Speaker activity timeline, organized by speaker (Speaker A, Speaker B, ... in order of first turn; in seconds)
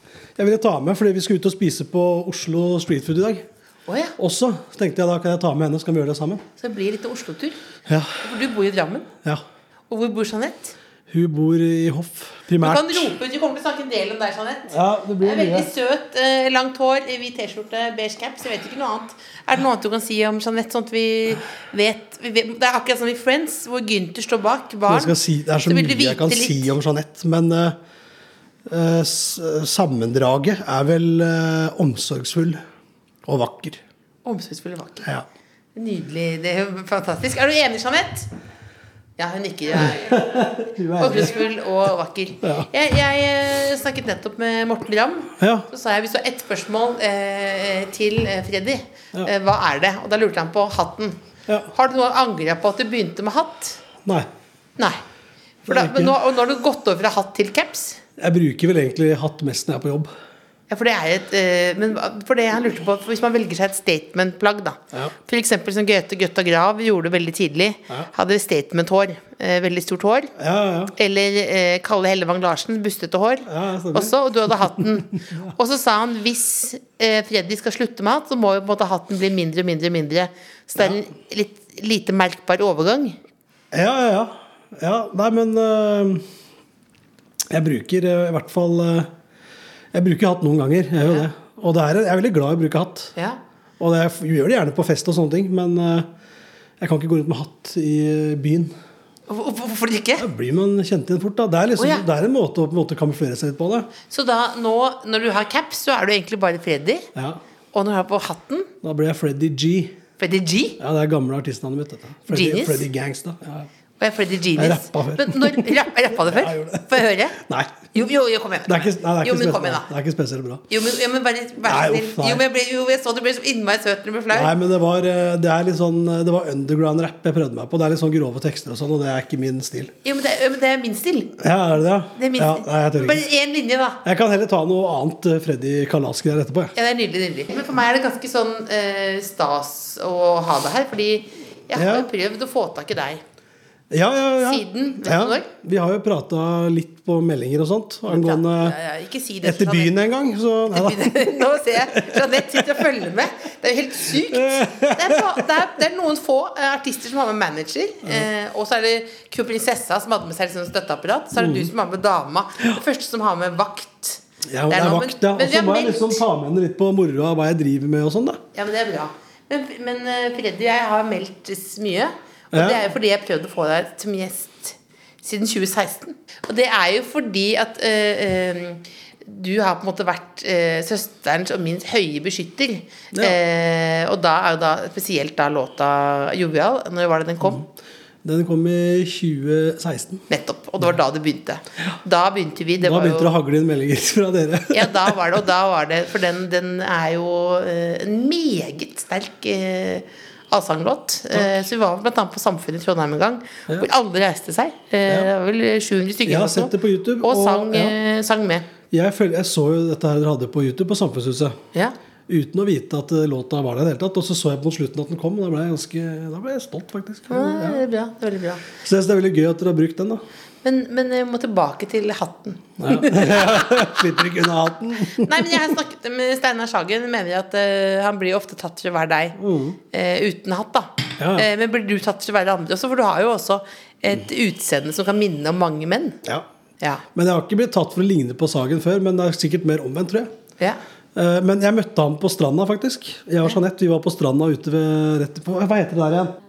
Speaker A: 0.4-3.5, 4.2-6.4, 7.9-8.2, 11.1-13.1, 14.7-15.7, 24.9-27.8, 28.7-32.6, 33.3-33.8, 39.7-41.5, 42.4-42.7, 45.4-45.7, 55.7-56.2, 58.2-60.1, 70.4-70.9, 73.5-75.5, 83.7-86.3, 87.5-89.1, 89.9-93.2, 93.8-96.1, 96.8-98.8, 100.2-103.9, 107.2-107.4, 108.8-110.0, 110.8-113.7, 114.5-117.9, 118.7-120.7, 121.6-122.4, 124.3-129.9, 131.4-133.2, 134.0-136.7, 141.7-142.1, 143.9-148.8, 149.4-152.9, 154.1-155.5, 161.4-161.7, 164.5-168.4, 172.5-172.9, 183.1-183.4, 188.2-190.3, 192.8-195.2, 201.3-201.6, 206.2-208.0, 208.9-211.6, 212.3-217.8, 218.8-220.2, 222.8-225.8, 229.4-229.8, 231.2-231.5, 237.1-240.3, 241.2-246.4
Speaker B: 3.9-4.2, 6.6-7.6, 8.2-9.1, 9.9-10.8, 12.6-26.7, 34.2-35.1, 35.8-38.3, 39.2-51.2, 51.7-53.8, 55.7-58.0, 60.7-70.3, 71.0-83.2, 99.3-100.3, 101.8-102.0, 104.1-107.1, 107.7-108.7, 110.2-110.8, 112.3-112.9, 114.0-117.4, 117.9-119.9, 120.7-124.5, 130.0-131.4, 132.1-134.0, 136.8-143.2, 144.4-145.5, 148.1-149.9, 150.7-166.2, 168.5-187.6, 190.3-193.3, 194.7-208.7, 217.3-218.7, 220.6-224.2, 225.1-229.4, 229.9-236.2